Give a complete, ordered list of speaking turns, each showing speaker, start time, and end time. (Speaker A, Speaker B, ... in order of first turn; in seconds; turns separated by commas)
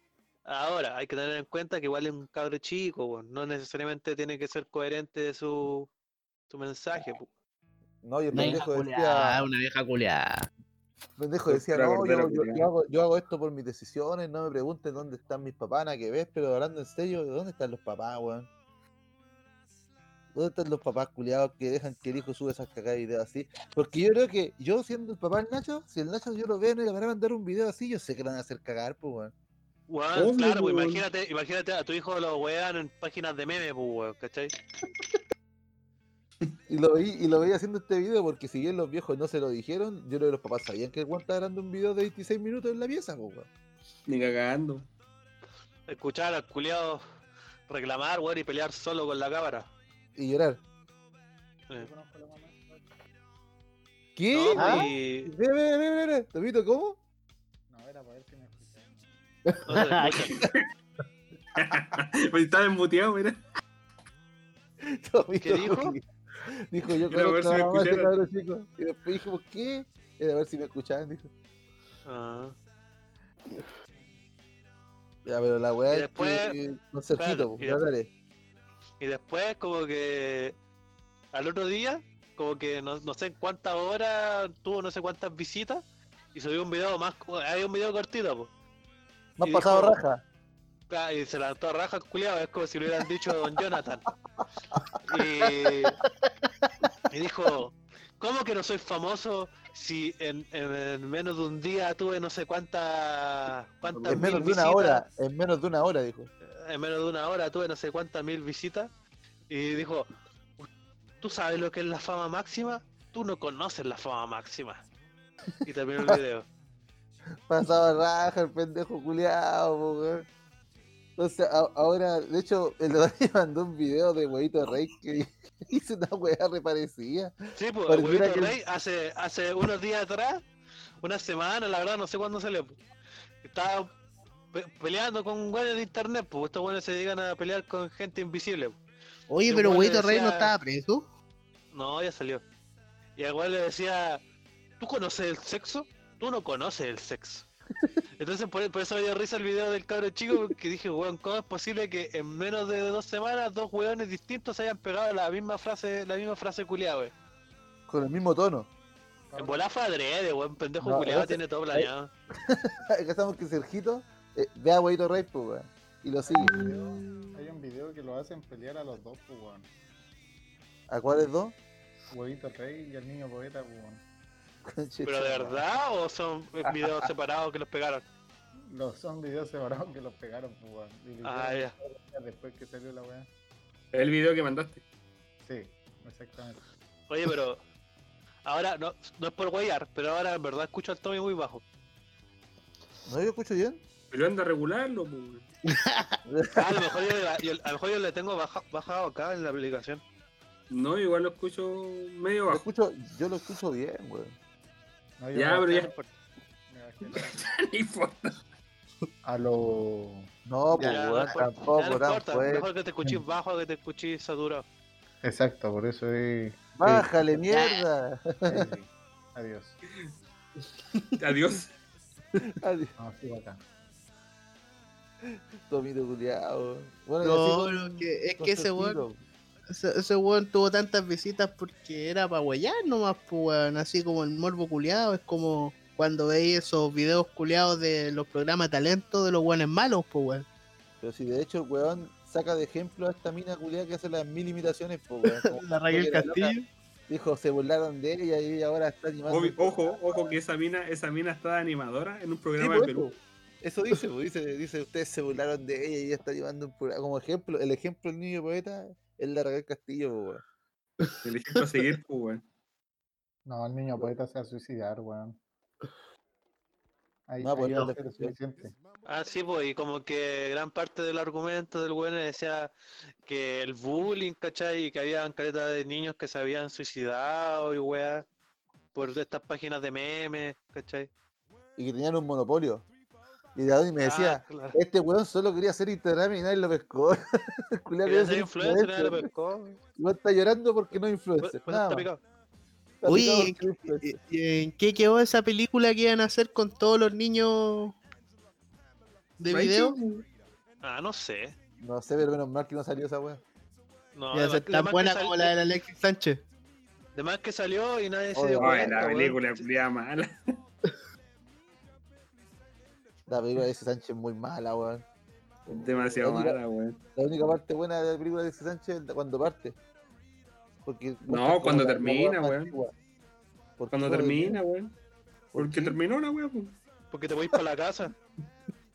Speaker A: 0.5-5.9, Speaker A: 6.5-7.3, Speaker B: 8.0-9.5, Speaker C: 8.3-10.5, Speaker B: 11.2-18.5, Speaker D: 11.5-12.7, Speaker B: 20.3-29.3, Speaker A: 29.9-34.5, Speaker D: 30.1-31.0, Speaker B: 36.7-43.5, Speaker D: 44.1-44.9, Speaker A: 45.9-47.0, Speaker A: 47.7-49.7, Speaker B: 50.2-50.6, Speaker E: 51.7-52.8, Speaker B: 54.2-57.0, Speaker A: 54.3-55.3, Speaker C: 54.5-54.9, Speaker E: 57.7-58.9, Speaker C: 59.5-60.4, Speaker A: 59.7-60.4, Speaker B: 60.2-60.5, Speaker D: 61.5-63.4, Speaker B: 64.8-71.3, Speaker A: 65.4-66.0, Speaker D: 67.1-68.1, Speaker A: 72.1-72.6, Speaker B: 75.2-78.1, Speaker A: 75.9-76.6, Speaker A: 77.2-77.8, Speaker A: 79.0-80.6, Speaker A: 81.3-85.8, Speaker A: 86.3-88.5, Speaker B: 89.4-90.2, Speaker A: 89.4-90.0, Speaker A: 90.9-94.1, Speaker B: 94.4-95.7, Speaker A: 95.0-96.0, Speaker A: 97.1-105.0, Speaker D: 103.9-104.3, Speaker B: 104.1-106.3, Speaker A: 106.6-108.9, Speaker A: 109.5-110.7, Speaker A: 111.2-114.8, Speaker A: 115.6-116.5, Speaker B: 117.5-120.2, Speaker B: 121.2-127.3, Speaker A: 127.5-130.4, Speaker B: 127.9-128.6, Speaker A: 131.0-132.8, Speaker A: 133.4-133.9, Speaker A: 134.5-138.8, Speaker C: 139.3-141.0, Speaker A: 139.5-140.5, Speaker A: 141.7-142.4, Speaker A: 143.2-144.2, Speaker A: 144.8-147.5, Speaker A: 148.2-157.1, Speaker B: 157.9-158.7, Speaker E: 159.3-159.7, Speaker A: 159.4-162.1, Speaker B: 160.8-166.6, Speaker E: 166.3-169.7, Speaker B: 170.9-171.6, Speaker E: 172.1-174.0, Speaker B: 174.7-175.6, Speaker A: 175.1-178.1, Speaker E: 178.7-183.3, Speaker A: 181.2-181.7, Speaker D: 183.9-184.8, Speaker E: 185.4-186.6, Speaker A: 187.1-187.6, Speaker A: 188.5-191.6, Speaker B: 193.1-193.8, Speaker D: 194.1-195.5, Speaker C: 195.7-196.2, Speaker B: 196.3-197.0, Speaker A: 196.6-200.0, Speaker D: 200.7-202.6, Speaker B: 202.5-204.3, Speaker E: 205.2-206.1, Speaker D: 205.3-205.9, Speaker E: 206.7-207.5, Speaker D: 207.1-208.4, Speaker E: 209.2-210.3, Speaker B: 210.5-212.7, Speaker C: 210.8-211.4, Speaker A: 210.8-214.7, Speaker E: 215.2-217.1, Speaker B: 216.8-218.7, Speaker C: 217.5-217.8, Speaker E: 218.5-219.8, Speaker D: 221.2-221.7, Speaker B: 222.6-222.9, Speaker E: 223.0-223.6, Speaker B: 225.2-229.2, Speaker C: 227.2-229.0, Speaker C: 229.7-240.5, Speaker B: 241.0-246.6, Speaker C: 245.3-246.7, Speaker B: 247.1-250.4, Speaker D: 249.3-253.1, Speaker B: 252.6-260.4, Speaker D: 261.2-262.4, Speaker E: 263.5-265.4, Speaker E: 267.3-268.7, Speaker B: 267.4-268.3, Speaker A: 269.1-272.7, Speaker A: 273.3-278.3, Speaker A: 278.9-281.1, Speaker B: 281.8-282.9, Speaker B: 283.6-289.3, Speaker A: 284.0-284.8, Speaker A: 288.0-289.8, Speaker B: 290.0-292.1, Speaker A: 291.4-292.2, Speaker B: 293.0-294.1, Speaker C: 293.1-298.0, Speaker C: 299.4-300.0, Speaker D: 299.5-300.3, Speaker A: 300.8-301.6, Speaker B: 301.8-303.4, Speaker A: 304.1-305.5, Speaker C: 304.3-306.4, Speaker A: 307.1-309.6, Speaker B: 308.3-308.9, Speaker D: 308.6-310.4, Speaker B: 313.3-315.1, Speaker B: 315.7-316.6, Speaker D: 315.7-317.0, Speaker B: 317.2-319.8, Speaker B: 320.9-322.9, Speaker D: 321.3-322.8, Speaker B: 323.8-324.6, Speaker D: 323.9-324.9, Speaker B: 325.5-326.0, Speaker D: 325.6-326.8, Speaker A: 327.1-328.1